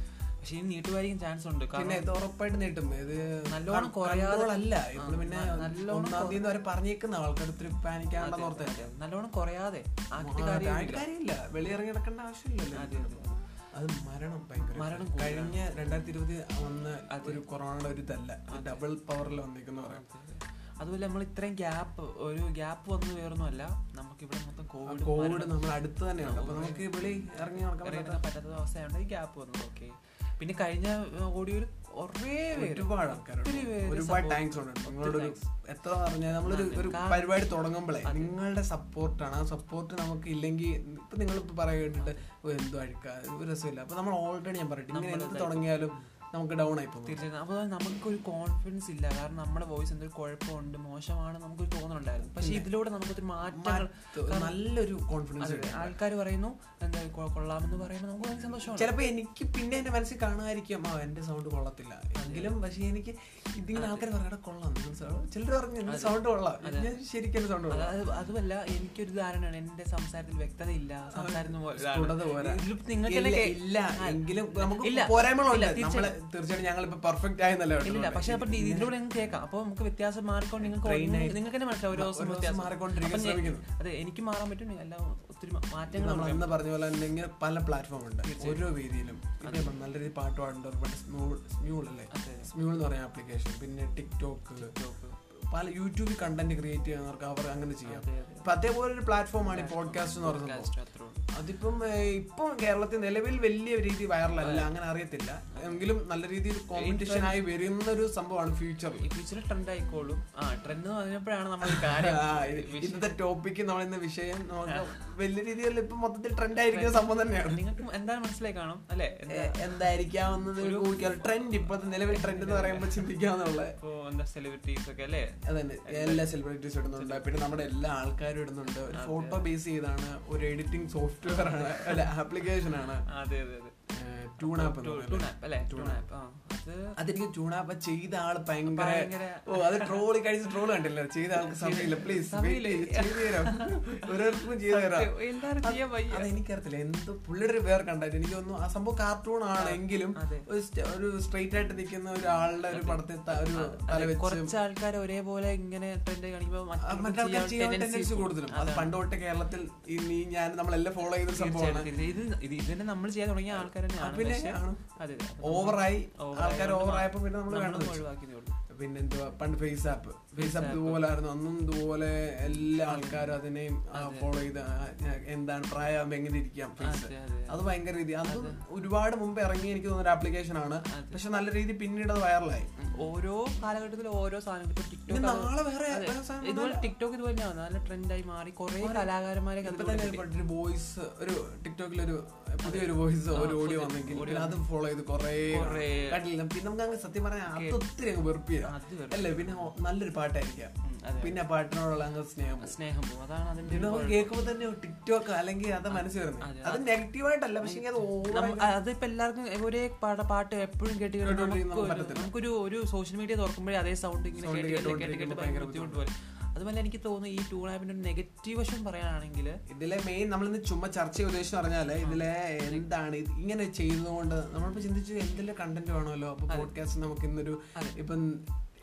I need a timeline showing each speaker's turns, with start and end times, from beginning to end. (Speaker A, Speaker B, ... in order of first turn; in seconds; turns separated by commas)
Speaker A: 0.4-2.1, Speaker B: 1.7-8.9, Speaker A: 3.4-6.5, Speaker A: 8.2-11.1, Speaker B: 10.2-13.2, Speaker A: 12.7-13.4, Speaker B: 13.7-20.0, Speaker A: 14.7-15.6, Speaker A: 17.1-17.4, Speaker A: 18.5-18.9, Speaker A: 19.8-25.6, Speaker B: 24.9-28.2, Speaker A: 26.2-35.4, Speaker B: 32.5-47.2, Speaker A: 36.5-37.3, Speaker A: 38.0-38.3, Speaker A: 44.9-45.9, Speaker A: 47.0-54.6, Speaker B: 52.4-52.7, Speaker B: 53.4-55.9, Speaker A: 55.4-58.9, Speaker B: 58.7-67.9, Speaker A: 62.2-62.5, Speaker A: 63.7-64.1, Speaker A: 65.8-66.9, Speaker A: 67.7-76.1, Speaker B: 71.1-79.0, Speaker A: 77.8-86.5, Speaker B: 80.6-83.6, Speaker B: 85.9-94.7, Speaker A: 88.2-88.7, Speaker A: 89.4-89.8, Speaker A: 92.1-92.5, Speaker A: 94.5-95.2, Speaker B: 95.5-100.7, Speaker A: 97.9-98.5, Speaker A: 99.4-101.2, Speaker B: 101.3-109.0, Speaker A: 104.4-104.7, Speaker A: 105.5-105.8, Speaker A: 106.7-107.4, Speaker A: 109.0-113.1, Speaker B: 111.6-117.6, Speaker A: 116.7-119.8, Speaker B: 119.3-123.7, Speaker A: 120.6-121.3, Speaker A: 122.1-123.1, Speaker A: 123.8-126.3, Speaker B: 125.4-133.0, Speaker A: 126.9-127.3, Speaker A: 128.9-129.5, Speaker A: 131.2-132.1, Speaker A: 133.1-133.7, Speaker B: 133.9-136.0, Speaker A: 134.4-136.9, Speaker B: 136.9-154.5, Speaker A: 138.7-140.5, Speaker A: 141.3-146.3, Speaker A: 149.5-150.4, Speaker A: 152.7-159.0, Speaker B: 156.8-161.9, Speaker A: 161.3-168.6, Speaker B: 163.5-164.8, Speaker B: 165.4-168.1, Speaker B: 168.7-182.7, Speaker A: 170.4-171.1, Speaker A: 172.7-173.3, Speaker A: 173.9-174.3, Speaker A: 176.8-177.6, Speaker A: 178.2-178.6, Speaker A: 180.9-181.2, Speaker A: 182.8-190.2, Speaker B: 185.1-186.9, Speaker B: 188.8-189.1, Speaker B: 189.6-202.8, Speaker A: 192.6-194.6, Speaker A: 195.5-196.2, Speaker A: 197.5-197.8, Speaker A: 198.6-199.7, Speaker A: 200.8-201.4, Speaker A: 202.6-204.3, Speaker B: 203.6-208.8, Speaker A: 205.9-206.8, Speaker A: 207.6-219.6, Speaker B: 211.2-212.3, Speaker B: 214.3-216.0, Speaker B: 219.7-228.4, Speaker A: 222.0-222.9